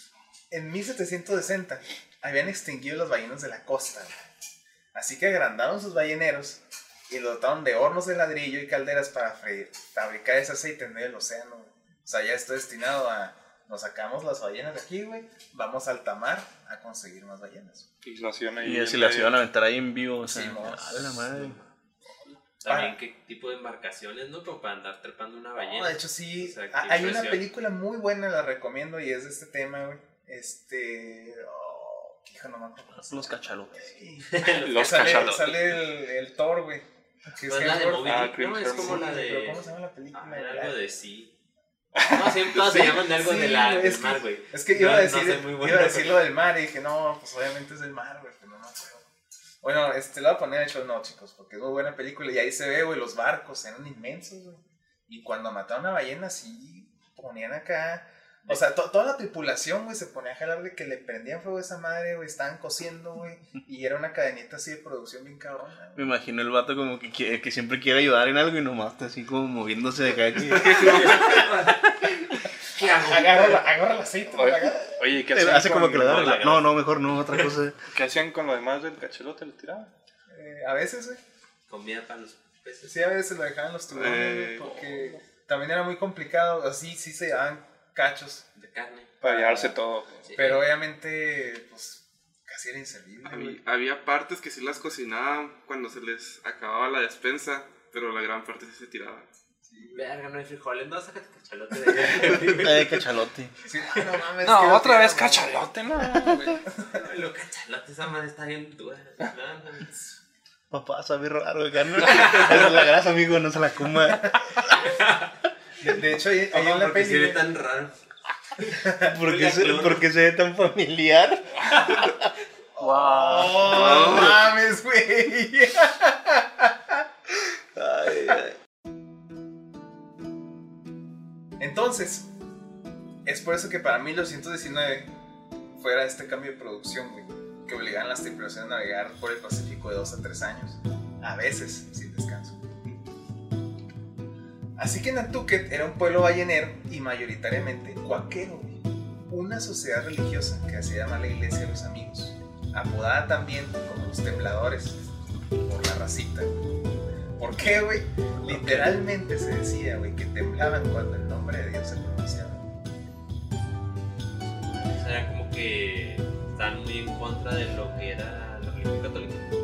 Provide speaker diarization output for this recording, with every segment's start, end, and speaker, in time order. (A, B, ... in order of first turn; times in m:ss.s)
0:00.5-0:04.1 A
0:04.9-0:17.9 A
0:18.0-0:19.3 B
0:18.6-0:21.6 C
0:20.2-0:21.5 A
0:22.6-0:27.4 D
0:22.6-0:23.0 A
0:25.6-0:40.8 A
0:32.9-0:33.9 C
0:34.3-0:35.5 D
0:34.6-0:35.8 B
0:37.5-0:41.3 D
0:38.0-0:39.1 B
0:42.0-0:46.2 D
0:42.5-0:49.1 A
0:49.6-1:06.1 A
1:06.0-1:11.2 C
1:10.5-1:11.4 E
1:10.5-1:12.2 D
1:12.7-1:13.6 D
1:12.9-1:15.0 A
1:14.3-1:16.7 B
1:15.3-1:17.8 C
1:17.9-1:19.9 B
1:20.3-1:21.2 A
1:21.7-1:22.9 D
1:22.8-1:28.4 A
1:23.9-1:24.8 E
1:28.6-1:29.1 D
1:29.2-1:30.3 B
1:29.2-1:29.8 A
1:30.2-1:30.6 D
1:30.3-1:33.6 A
1:33.2-1:39.3 E
1:39.6-1:40.1 A
1:39.9-1:43.0 D
1:42.4-1:43.5 C
1:43.6-1:45.7 A
1:44.4-1:46.6 B
1:46.7-1:47.0 A
1:46.9-1:49.9 D
1:50.7-1:54.5 C
1:52.0-1:52.7 D
1:54.7-1:55.3 D
1:55.8-1:57.5 A
1:56.5-1:58.0 D
1:58.6-2:00.0 D
1:58.8-1:59.2 A
1:59.0-2:02.3 C
2:02.8-2:07.0 A
2:02.8-2:03.6 B
2:03.0-2:03.6 C
2:03.6-2:04.5 E
2:07.7-2:08.6 C
2:11.6-2:12.3 A
2:13.2-2:15.1 A
2:15.8-2:23.0 A
2:24.8-2:35.0 A
2:35.6-2:36.6 A
2:37.4-2:42.6 A
2:44.7-2:49.5 D